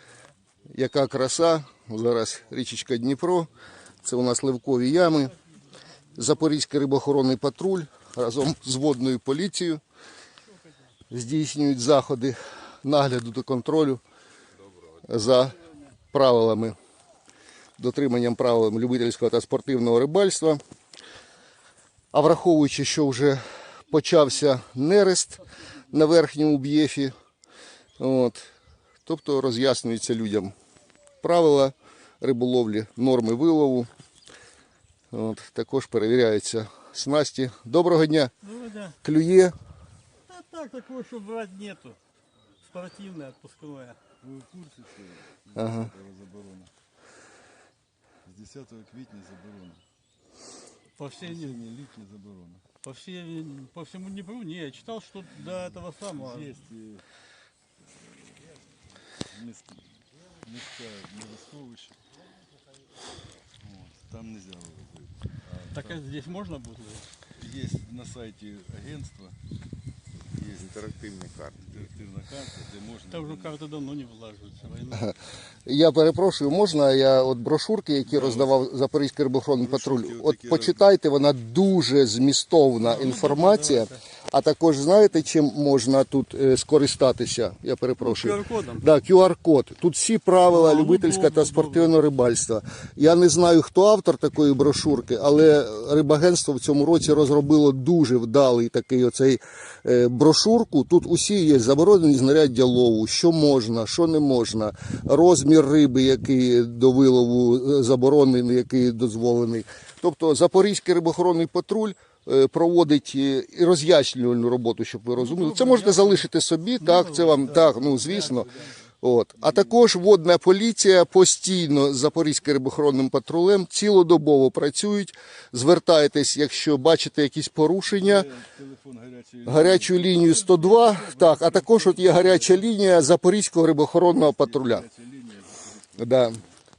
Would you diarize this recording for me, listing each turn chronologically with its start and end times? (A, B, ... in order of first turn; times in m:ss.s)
0:00.7-0:03.5 A
0:04.0-0:05.3 A
0:06.2-0:09.8 A
0:11.1-0:14.0 A
0:15.1-0:15.6 A
0:16.1-0:16.8 A
0:17.8-0:20.6 A
0:22.1-0:27.1 A
0:28.0-0:28.5 A
0:29.0-0:30.5 A
0:31.2-0:33.9 A
0:35.1-0:38.3 A
0:38.4-0:39.0 B
0:39.0-0:39.5 A
0:40.3-0:42.0 B
0:42.6-0:44.0 B
0:44.2-0:46.7 C
0:45.6-0:45.9 A
0:48.2-0:49.8 C
0:51.0-0:51.6 B
0:51.2-0:52.6 C
0:52.8-0:56.6 B
0:55.4-0:57.0 C
0:58.0-0:58.6 C
0:59.3-0:59.8 C
1:00.4-1:02.0 C
1:03.6-1:06.0 C
1:05.7-1:07.1 B
1:07.4-1:09.4 C
1:10.3-1:13.6 C
1:13.1-1:15.1 B
1:15.7-1:58.5 A
1:18.1-1:18.6 C
1:19.6-1:20.8 C
1:22.8-1:24.0 B
1:28.0-1:28.8 B
1:30.5-1:32.0 B
1:55.2-1:56.3 B
1:56.8-1:58.5 B
1:59.0-2:08.3 A
2:07.9-2:12.6 C
2:09.5-2:14.8 A
2:14.0-2:16.5 C
2:16.0-2:16.4 A